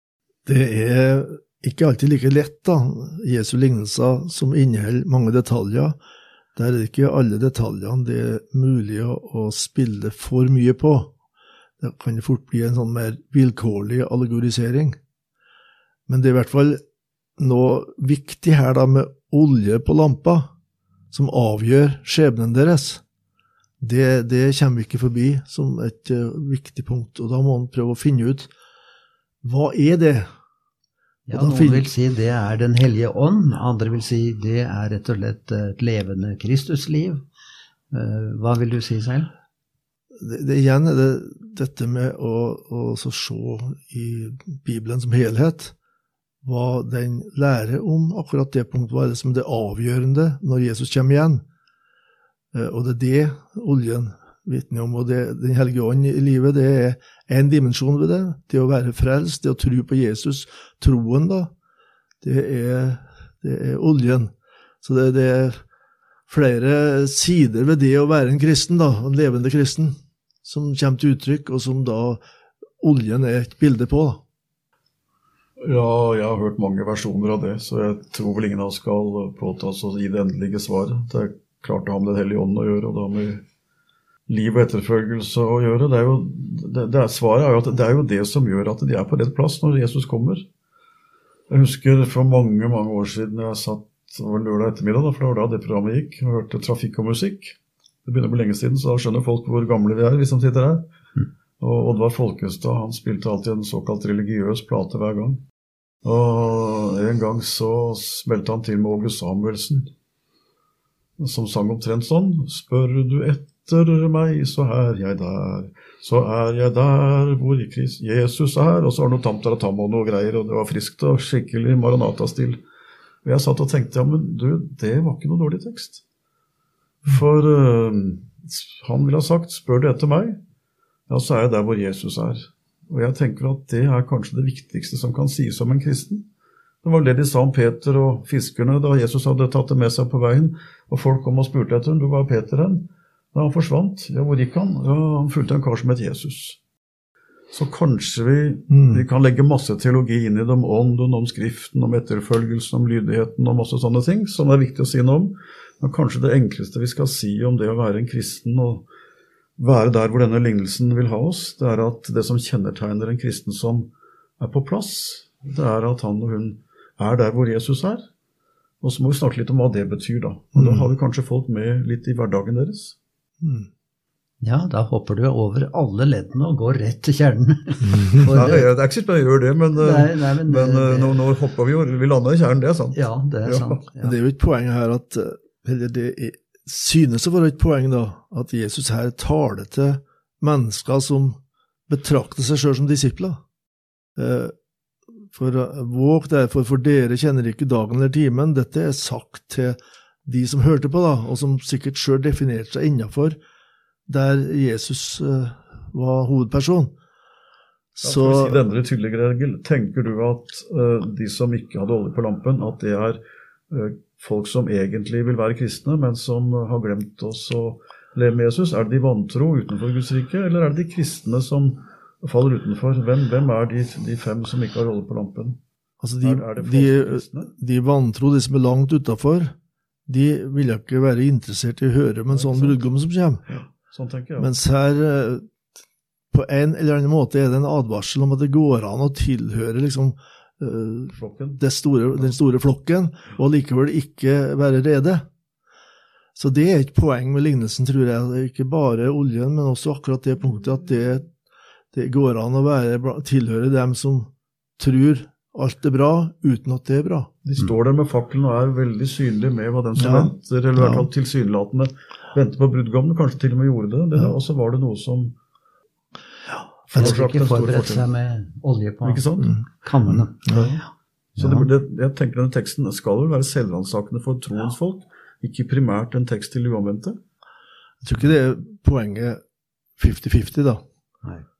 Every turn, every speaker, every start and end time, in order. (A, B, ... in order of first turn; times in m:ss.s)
0:00.5-0:06.0 A
0:06.6-0:11.1 A
0:11.8-0:15.0 A
0:16.1-0:16.8 A
0:17.4-0:20.5 A
0:21.1-0:23.0 A
0:23.8-0:28.5 A
0:29.4-0:30.3 A
0:31.3-0:37.2 B
0:31.3-0:31.9 A
0:37.9-0:39.3 B
0:40.2-0:45.7 A
0:46.4-0:51.4 A
0:52.5-1:01.5 A
1:02.2-1:05.6 A
1:06.3-1:12.2 A
1:12.8-1:14.2 A
1:15.6-1:23.4 C
1:24.3-1:30.4 C
1:31.5-1:40.9 C
1:41.6-1:45.4 C
1:46.0-1:49.9 C
1:51.2-2:02.6 C
2:03.2-2:06.0 C
2:07.0-2:10.4 C
2:11.1-2:16.3 C
2:16.8-2:26.6 C
2:27.5-2:38.9 C
2:28.7-2:29.0 A
2:39.6-2:48.0 C
2:48.8-2:53.0 C
2:50.6-2:50.9 A
2:53.4-2:53.7 A
2:54.4-2:58.7 B
2:58.3-3:03.8 C
2:59.8-3:01.2 B
3:02.9-3:04.2 B
3:04.0-3:13.4 A
3:14.2-3:14.5 A
3:15.3-3:23.4 A
3:24.1-3:26.9 A
3:28.0-3:28.6 A
3:28.0-3:45.6 C
3:46.0-3:49.5 A
3:46.2-3:47.5 C
3:50.1-3:53.5 A
3:52.3-3:52.8 C
3:53.5-3:54.5 C
3:54.4-3:55.4 A
3:56.3-4:05.2 A
4:01.1-4:01.6 C
4:06.4-4:11.3 A
4:11.9-4:17.3 A
4:17.4-4:25.4 C
4:20.0-4:21.1 A
4:26.9-4:28.0 C
4:27.0-4:31.7 B
4:29.0-4:29.6 C
4:30.5-4:30.8 A
4:31.4-4:37.2 C
4:38.0-4:39.4 A
4:40.0-4:40.8 A